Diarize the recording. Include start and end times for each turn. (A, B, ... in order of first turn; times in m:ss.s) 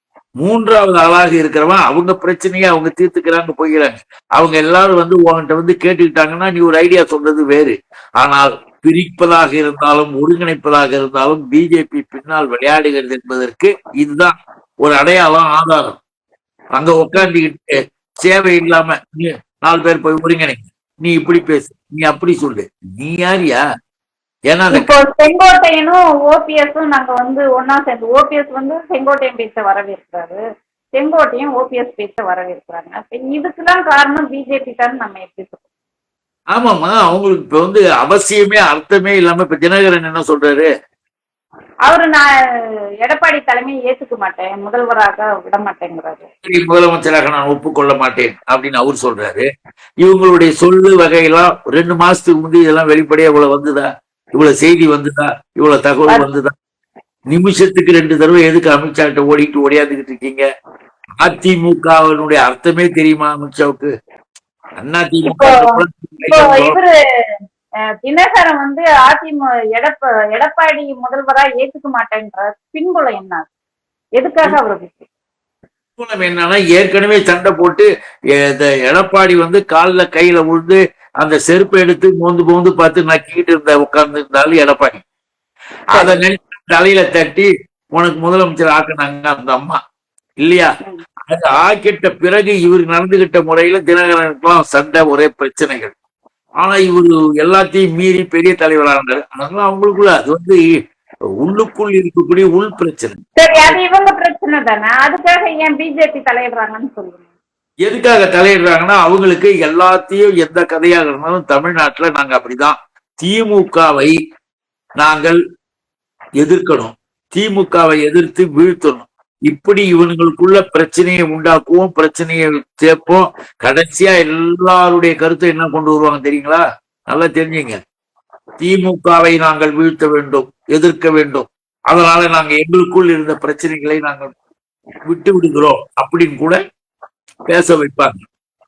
0:00.4-0:16.0 A
0:16.8-0:23.6 A
0:24.5-0:24.9 A
0:24.7-0:30.4 B
0:31.0-0:35.6 B
0:36.5-0:40.7 A
0:41.9-0:42.2 B
0:43.0-0:46.3 B
0:46.4-0:49.5 A
0:50.0-0:56.5 A
0:57.3-1:00.4 A
1:01.2-1:03.9 A
1:04.8-1:06.8 A
1:05.2-1:06.9 B
1:08.0-1:13.4 B
1:14.2-1:15.1 B
1:16.0-1:17.9 A
1:18.4-1:25.0 A
1:26.0-1:26.2 B
1:26.0-1:29.8 A
1:30.4-1:30.7 A
1:31.3-1:35.9 A
1:36.6-1:40.6 A
1:41.4-1:43.8 A
1:43.4-1:47.3 B
1:47.8-1:54.2 A
1:55.0-1:55.4 A
1:56.4-2:07.8 A
2:08.6-2:14.3 A
2:15.1-2:16.6 A
2:17.5-2:18.2 A